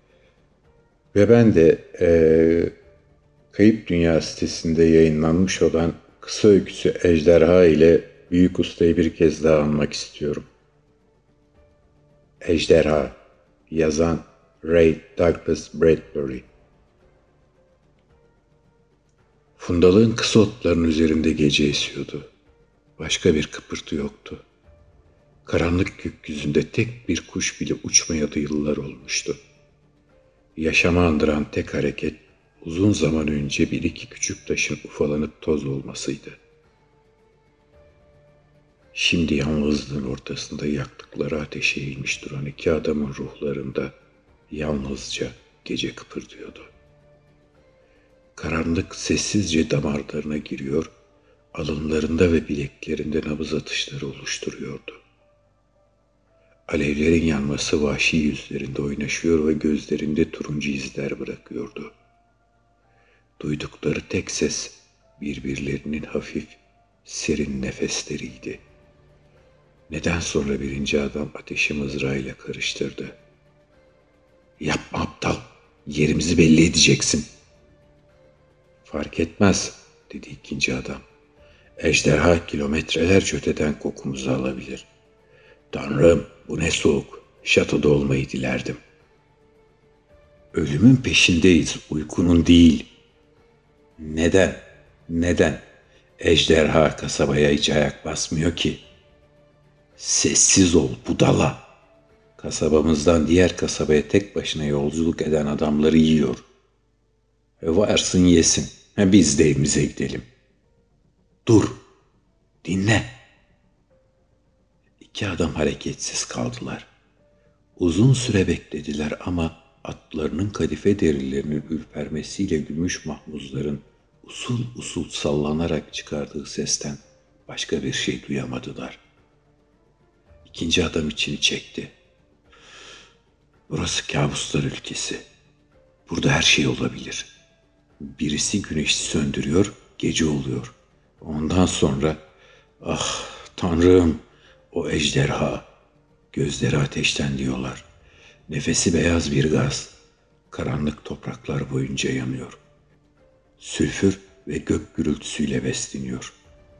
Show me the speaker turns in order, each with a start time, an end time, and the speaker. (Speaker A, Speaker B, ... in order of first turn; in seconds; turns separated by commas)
Speaker A: 1.1-2.7, Speaker A: 3.5-10.4, Speaker A: 12.4-13.2, Speaker A: 13.7-16.5, Speaker A: 19.6-22.3, Speaker A: 23.0-24.4, Speaker A: 25.4-29.4, Speaker A: 30.6-36.4, Speaker A: 38.9-44.0, Speaker A: 44.5-46.7, Speaker A: 48.4-50.9, Speaker A: 51.5-55.0, Speaker A: 56.7-61.9, Speaker A: 63.4-68.6, Speaker A: 69.9-73.2, Speaker A: 74.6-77.3, Speaker A: 78.8-81.0, Speaker A: 81.8-84.9, Speaker A: 85.7-88.8, Speaker A: 90.5-92.9, Speaker A: 94.0-95.7, Speaker A: 96.2-98.8, Speaker A: 100.0-101.7, Speaker A: 102.4-106.5, Speaker A: 107.6-110.3, Speaker A: 111.5-111.8, Speaker A: 112.6-113.2, Speaker A: 115.0-116.9, Speaker A: 117.8-129.0, Speaker A: 130.4-131.9, Speaker A: 133.7-135.3, Speaker A: 136.1-137.3, Speaker A: 138.0-142.2, Speaker A: 142.8-145.7, Speaker A: 146.3-147.9, Speaker A: 148.5-149.9, Speaker A: 150.5-152.6, Speaker A: 153.6-156.3